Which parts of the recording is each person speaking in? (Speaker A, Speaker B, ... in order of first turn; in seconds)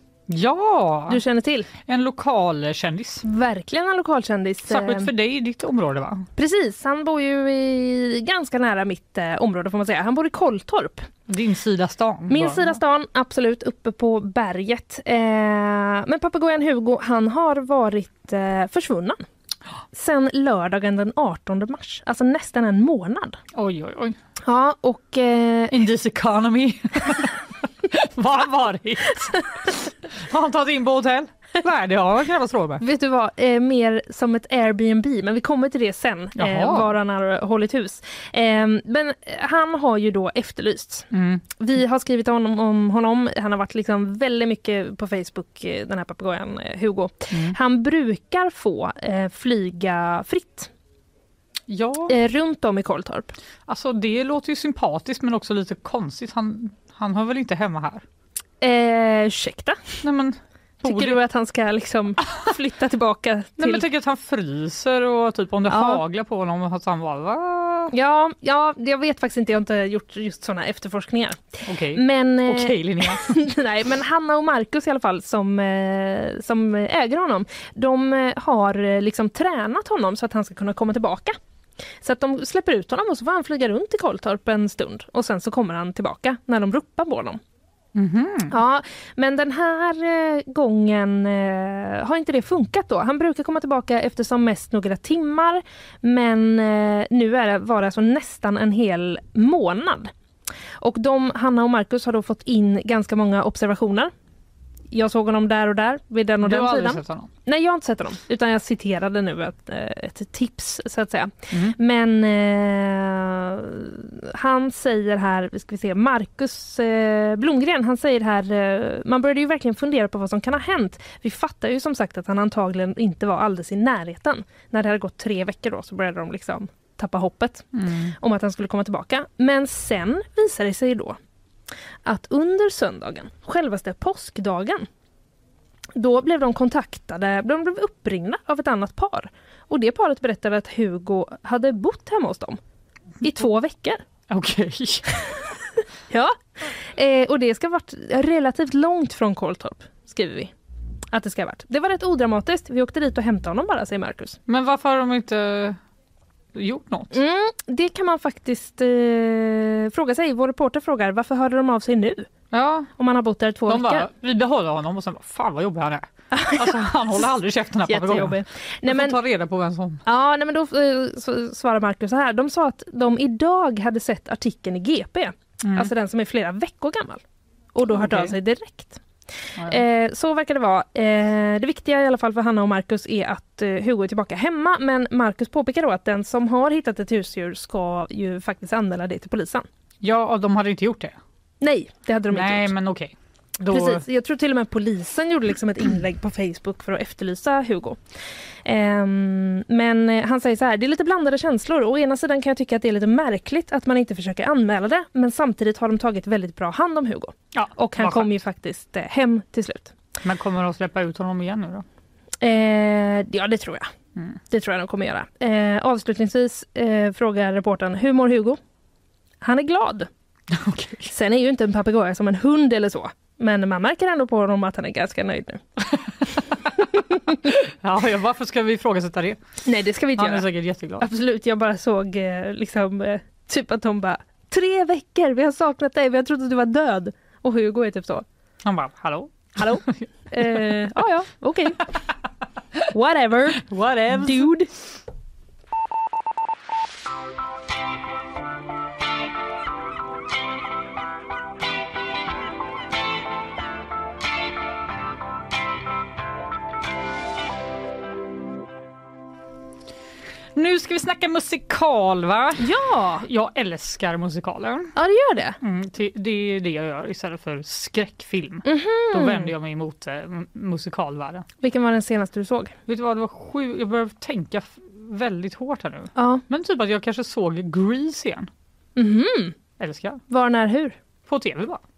Speaker A: 0.3-1.2, 1.8-3.2, 4.7-6.3, 11.3-12.8, 23.5-24.2, 25.7-32.8, 36.4-36.9, 41.1-41.4, 47.3-47.6, 51.7-52.1, 53.7-58.0, 60.0-61.2, 63.6-67.9, 71.6-73.3, 87.9-88.5, 106.4-107.3, 111.5-111.8, 127.7-128.1, 144.3-145.1, 154.5-155.8, 156.5-157.2, 162.5-162.9, 163.7-170.0, 175.6-175.9, 177.9-178.3, 179.6-179.8, 190.0-191.2, 192.3-194.0, 207.5-208.4, 210.2-211.8, 220.5-221.1, 227.4-229.4, 230.2-231.1, 238.6-240.7, 243.6-244.5, 260.6-264.9, 265.6-271.4, 272.9-278.5, 279.8-280.2, 281.3-281.8
Speaker B: 1.1-1.7, 3.2-5.1, 6.3-11.1, 12.3-19.2, 19.9-23.4, 24.4-25.8, 32.8-50.7, 52.1-53.3, 58.6-59.8, 60.8-63.8, 65.7-66.0, 67.9-81.4, 82.0-87.4, 88.5-100.1, 100.8-104.1, 104.9-131.2, 132.0-134.9, 135.9-142.6, 143.2-144.0, 146.1-150.5, 151.1-154.4, 157.1-162.3, 163.0-164.1, 166.3-167.3, 167.8-169.2, 170.1-177.2, 177.7-179.0, 179.6-189.7, 191.6-192.7, 193.7-198.0, 198.6-209.9, 212.4-213.9, 214.5-218.6, 219.4-220.1, 221.1-225.6, 229.6-238.2, 239.6-241.8, 242.9-244.7, 262.6-263.2, 264.9-265.6, 268.6-269.5, 271.6-272.7, 276.1-276.4, 278.9-279.5, 280.3-280.9